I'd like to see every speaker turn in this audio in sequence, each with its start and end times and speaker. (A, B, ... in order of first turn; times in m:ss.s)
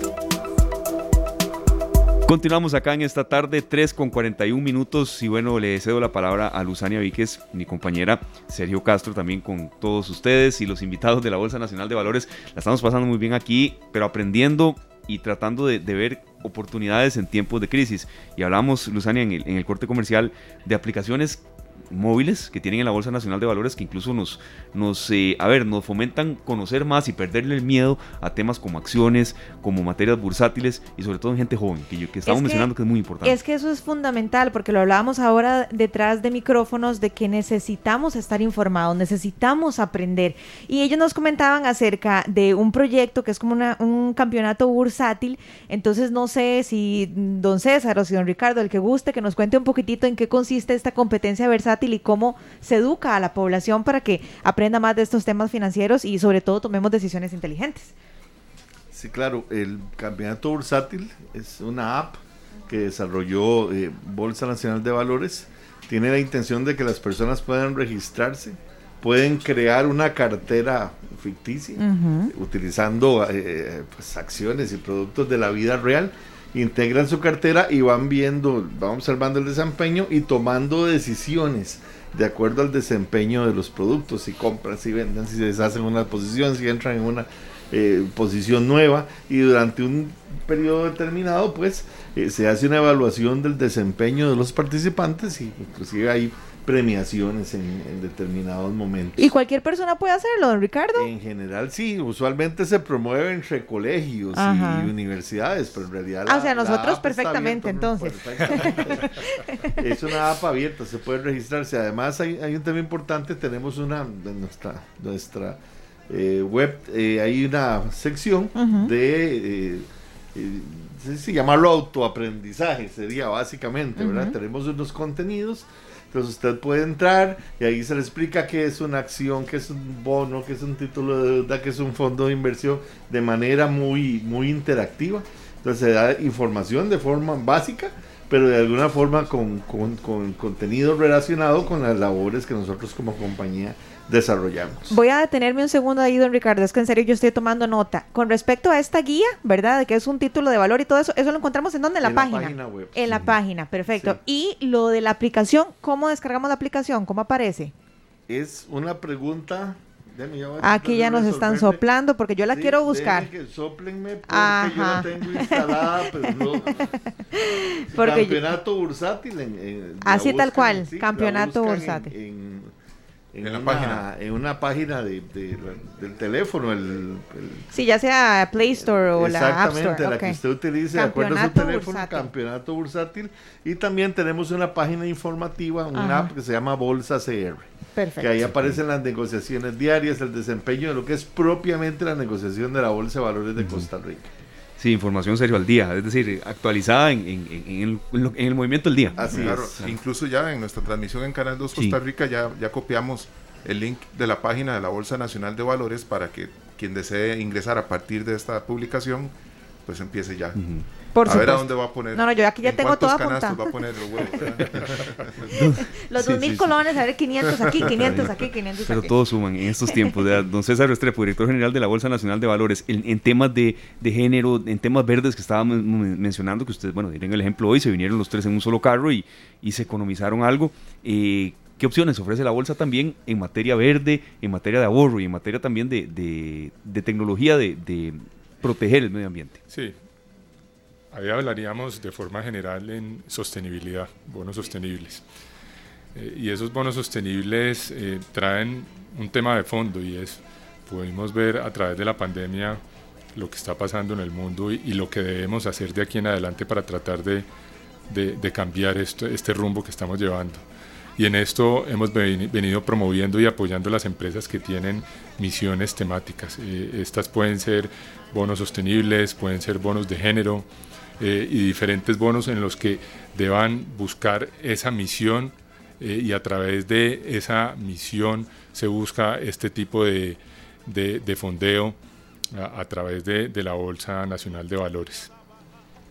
0:02.2-0:33.4 A
0:32.2-0:32.7 B
0:33.2-0:57.9 B
0:58.9-1:39.3 C
1:11.8-1:12.3 B
1:39.2-1:41.1 B
1:40.9-2:25.0 C
1:44.3-1:44.9 B
1:46.3-1:49.8 B
1:58.6-1:58.9 B
2:04.0-2:04.3 B
2:24.9-2:37.7 B
2:32.0-2:33.0 C
2:38.3-2:41.8 C
2:40.6-2:43.3 B
2:42.5-2:47.0 C
2:44.3-2:48.4 B
2:47.9-2:52.7 C
2:50.0-2:52.1 B
2:53.3-2:57.6 C
2:53.4-2:54.0 D
2:57.7-3:00.4 B
2:59.2-3:07.7 C
3:00.9-3:02.3 B
3:05.9-3:06.3 B
3:08.0-3:08.3 B
3:08.2-3:14.3 C
3:08.5-3:08.8 A
3:13.6-3:13.9 A
3:14.8-3:19.9 A
3:19.2-3:19.7 C
3:19.2-3:29.3 D
3:29.8-3:30.6 D
3:30.6-3:30.8 A
3:31.1-3:33.7 B
3:31.2-3:35.5 D
3:35.4-3:36.8 A
3:35.5-3:39.2 B
3:37.6-3:37.9 D
3:37.9-3:59.6 A
3:39.8-3:40.1 B
3:59.7-3:59.9 E
4:01.1-4:05.2 E
4:06.1-4:12.8 E
4:13.3-4:17.4 E
4:18.1-4:20.6 E
4:21.2-4:30.7 E
4:31.2-4:42.0 E
4:42.5-4:45.3 E